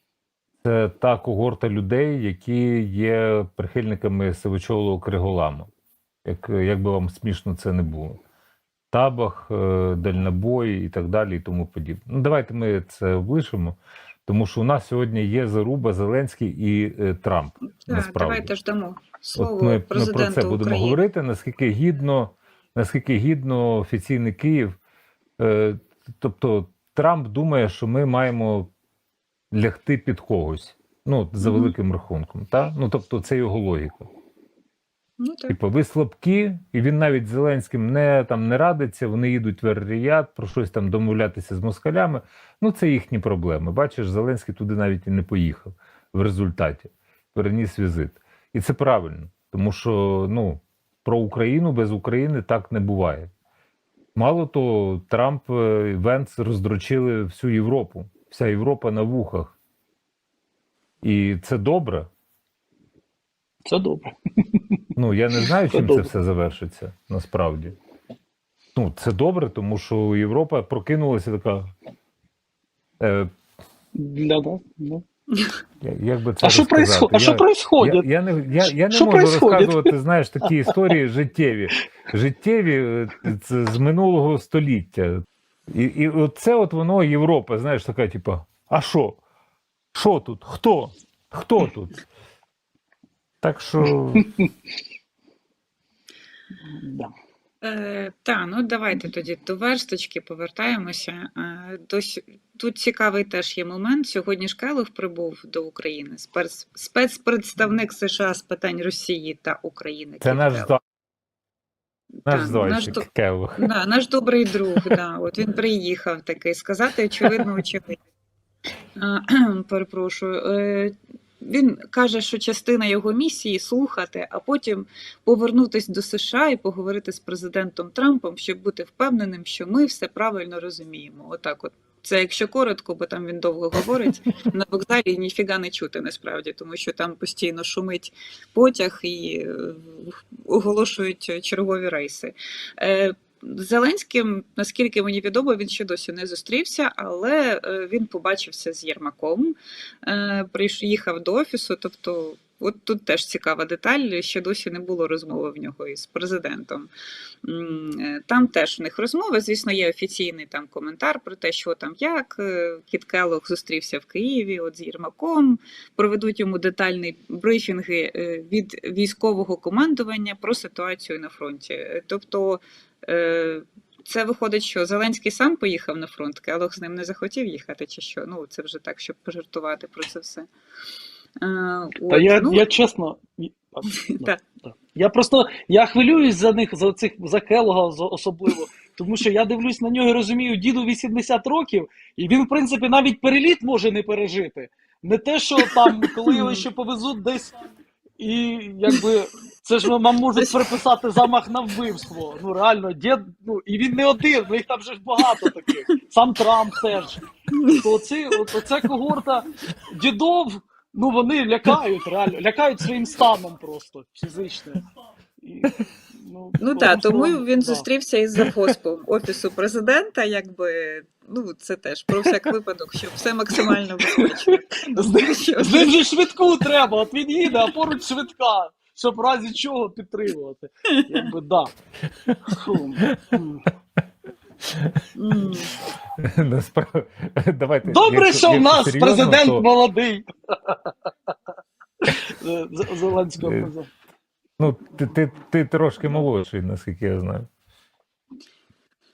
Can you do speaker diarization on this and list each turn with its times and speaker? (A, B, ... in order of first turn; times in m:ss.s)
0:00.6-0:05.7 A
0:06.2-0:08.2 A
0:08.9-0:18.5 A
0:17.8-0:21.0 B
0:19.4-0:24.8 A
0:25.4-0:28.7 A
0:29.5-0:34.1 A
0:31.4-0:31.7 B
0:35.2-0:35.6 B
0:35.5-0:53.3 A
0:54.1-0:59.5 A
1:01.0-1:02.1 A
1:03.6-1:04.8 C
1:05.0-1:07.8 A
1:05.7-1:06.1 C
1:08.7-1:11.7 A
1:13.0-1:13.3 A
1:13.9-1:15.0 C
1:15.8-1:29.2 A
1:16.4-1:18.1 C
1:18.9-1:19.9 C
1:29.9-1:31.9 A
1:33.4-1:34.3 A
1:34.2-1:34.5 C
1:36.6-1:37.1 C
1:37.6-1:50.7 B
1:50.2-1:50.8 A
1:52.1-1:53.0 B
1:52.2-1:53.6 A
1:53.6-1:58.0 B
1:59.0-2:36.9 B
2:37.4-3:00.5 B
3:01.4-3:02.7 B
3:02.1-3:17.7 C
3:03.8-3:04.4 B
3:16.3-3:16.6 B
3:18.2-3:34.8 C
3:20.4-3:20.7 B
3:27.5-3:27.9 B
3:35.4-3:37.8 C
3:36.6-3:46.0 B
3:43.6-3:51.7 C
3:52.3-3:53.4 A
3:52.4-3:53.6 C
3:54.6-3:55.6 A
3:55.1-3:55.8 B
3:56.2-3:59.6 A
3:57.8-4:01.3 C
4:02.0-4:03.9 C
4:03.4-4:03.7 A
4:04.6-4:07.5 A